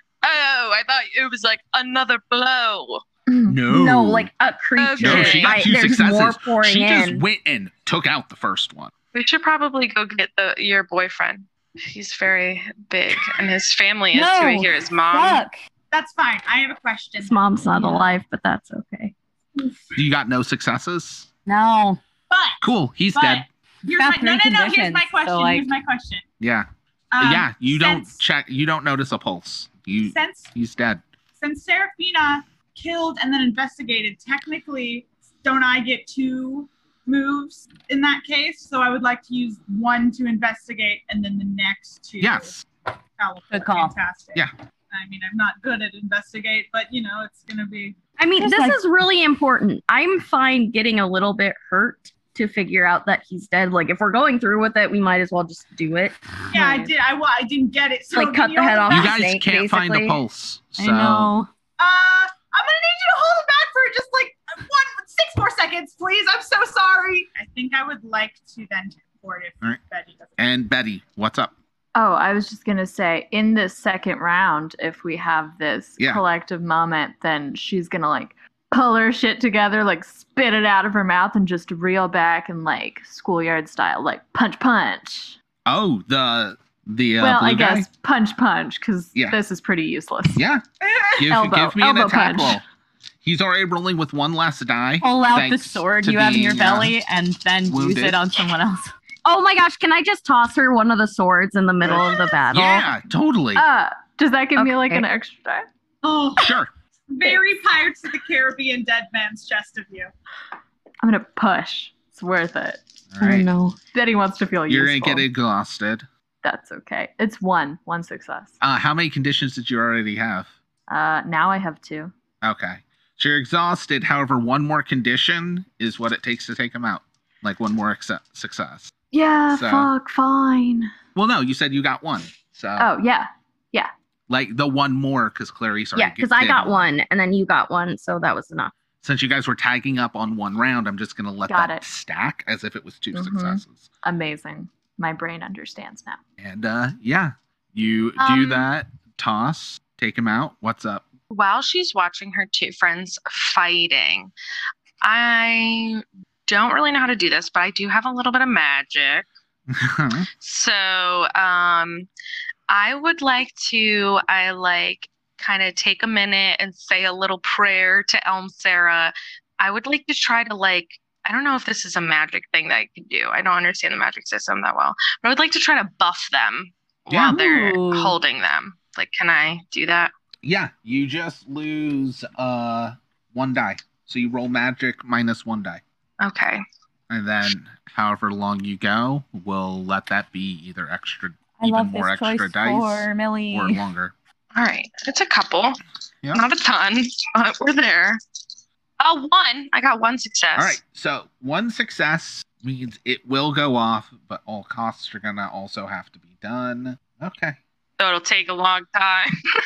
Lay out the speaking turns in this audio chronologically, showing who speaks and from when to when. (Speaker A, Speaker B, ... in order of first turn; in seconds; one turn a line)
Speaker A: 0.2-3.0
Speaker B: 3.3-3.6
Speaker C: 3.5-4.3
Speaker D: 3.7-7.2
Speaker A: 4.8-5.6
Speaker C: 5.0-8.9
Speaker A: 9.1-15.4
Speaker E: 14.1-15.6
Speaker F: 15.9-18.1
Speaker D: 17.2-19.1
Speaker C: 20.0-21.3
Speaker E: 21.5-22.0
Speaker F: 22.3-26.2
Speaker C: 22.6-23.4
Speaker E: 23.9-25.7
Speaker C: 26.4-26.7
Speaker F: 27.1-28.2
Speaker C: 27.2-31.0
Speaker F: 30.0-30.6
Speaker F: 31.4-42.5
Speaker C: 42.2-42.7
Speaker F: 43.2-48.0
Speaker E: 43.5-43.9
Speaker D: 48.2-56.8
Speaker E: 48.4-48.8
Speaker F: 56.5-59.2
Speaker D: 58.1-60.2
Speaker C: 58.9-61.3
Speaker E: 60.8-61.5
Speaker F: 61.8-70.4
Speaker C: 70.4-71.5
Speaker B: 72.0-85.4
Speaker C: 85.7-87.9
Speaker B: 87.2-90.5
Speaker C: 89.1-89.4
Speaker C: 90.3-90.6
Speaker F: 90.8-91.2
Speaker C: 91.2-92.6
Speaker B: 91.3-92.6
Speaker C: 93.2-97.0
Speaker E: 95.0-98.9
Speaker C: 97.7-98.2
Speaker D: 99.2-102.9
Speaker C: 101.8-103.6
Speaker B: 103.5-105.7
Speaker F: 106.0-106.6
Speaker C: 106.4-106.7
Speaker F: 107.1-110.1
Speaker B: 111.0-115.3
Speaker C: 113.1-113.5
Speaker C: 114.7-116.1
Speaker B: 116.4-118.6
Speaker C: 118.6-120.5
Speaker B: 120.9-122.1
Speaker C: 122.4-128.9
Speaker B: 129.1-130.9
Speaker C: 129.5-129.9
Speaker C: 131.2-132.9
Speaker B: 132.8-133.9
Speaker C: 134.3-136.9
Speaker D: 135.9-138.7
Speaker C: 139.0-143.9
Speaker B: 141.5-141.8
Speaker B: 143.1-146.2
Speaker C: 146.4-151.1
Speaker A: 148.2-148.6
Speaker A: 151.3-154.3
Speaker A: 155.0-159.3
Speaker C: 159.7-160.3
Speaker A: 160.4-162.1
Speaker A: 162.7-180.1
Speaker C: 177.1-177.4
Speaker E: 177.2-178.2
Speaker C: 180.4-185.8
Speaker A: 186.2-186.6
Speaker C: 187.1-194.1
Speaker E: 191.6-193.8
Speaker A: 194.6-195.8
Speaker A: 196.3-198.2
Speaker A: 199.0-200.8
Speaker C: 200.6-207.6
Speaker A: 208.0-209.3